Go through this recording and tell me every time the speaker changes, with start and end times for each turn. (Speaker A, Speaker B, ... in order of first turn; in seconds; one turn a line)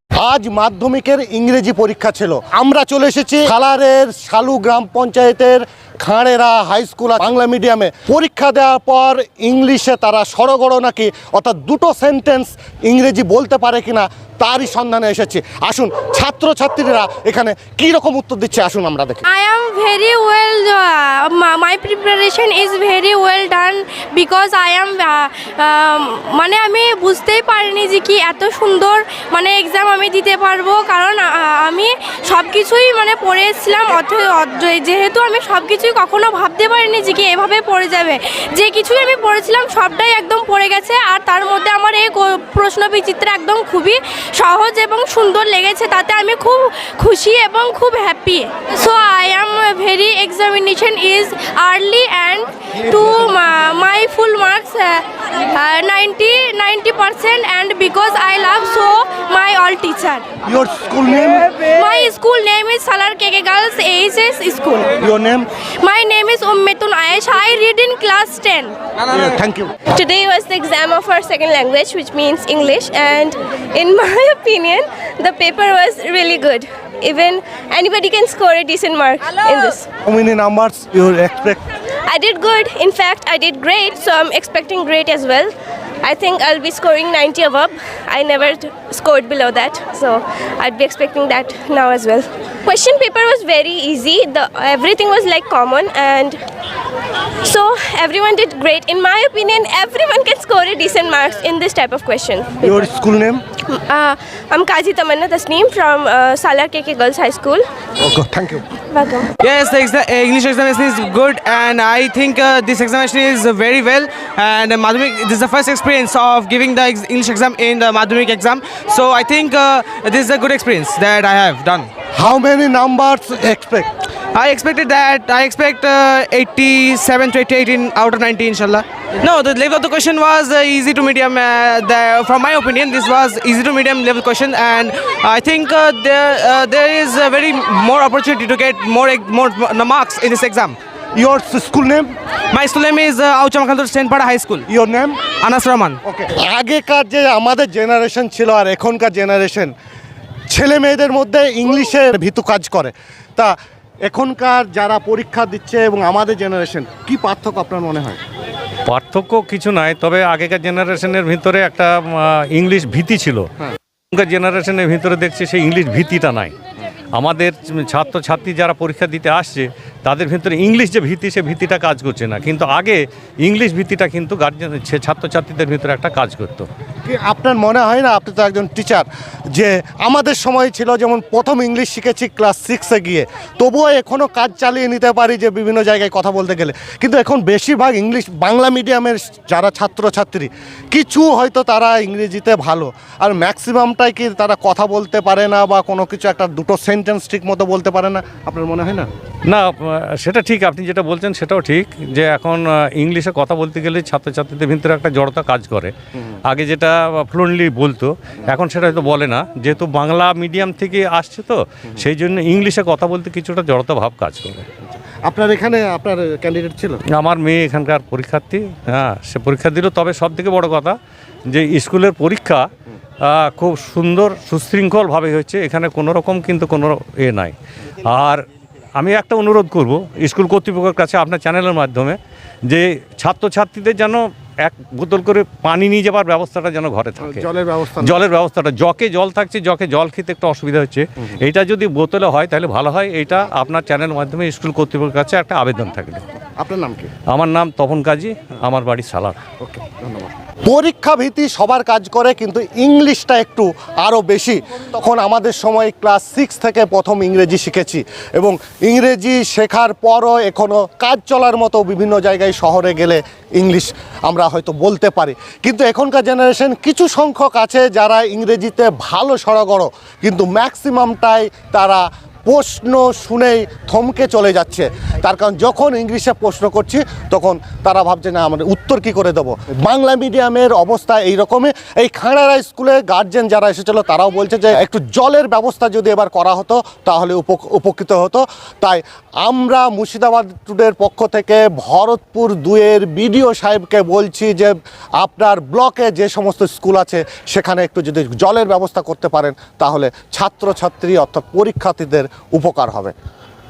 Speaker A: 0.2-19.2
Speaker B: 19.2-60.2
Speaker A: 60.5-61.5
Speaker B: 61.6-64.9
Speaker A: 65.0-65.5
Speaker B: 65.8-68.8
Speaker A: 69.1-69.7
Speaker C: 69.9-79.9
Speaker A: 80.1-81.6
Speaker C: 82.1-96.4
Speaker C: 97.4-102.7
Speaker A: 102.6-103.4
Speaker C: 103.7-107.6
Speaker A: 108.0-108.6
Speaker C: 108.9-109.3
Speaker D: 109.4-121.9
Speaker A: 122.2-123.9
Speaker D: 124.3-140.8
Speaker A: 141.2-142.1
Speaker D: 142.5-144.7
Speaker A: 144.7-145.2
Speaker D: 145.4-146.0
Speaker A: 146.1-149.7
Speaker A: 150.5-158.2
Speaker E: 158.9-163.5
Speaker E: 164.1-166.5
Speaker E: 167.1-176.7
Speaker A: 177.1-199.1
Speaker E: 199.5-205.9
Speaker E: 206.5-214.7
Speaker A: 215.2-217.0
Speaker E: 217.1-221.0
Speaker E: 221.5-222.7
Speaker E: 223.2-227.5
Speaker E: 228.1-228.4
Speaker E: 229.0-232.2
Speaker E: 232.7-237.5
Speaker A: 237.2-238.2
Speaker E: 238.0-246.2
Speaker A: 246.6-247.1
Speaker E: 247.3-249.4
Speaker A: 249.6-303.1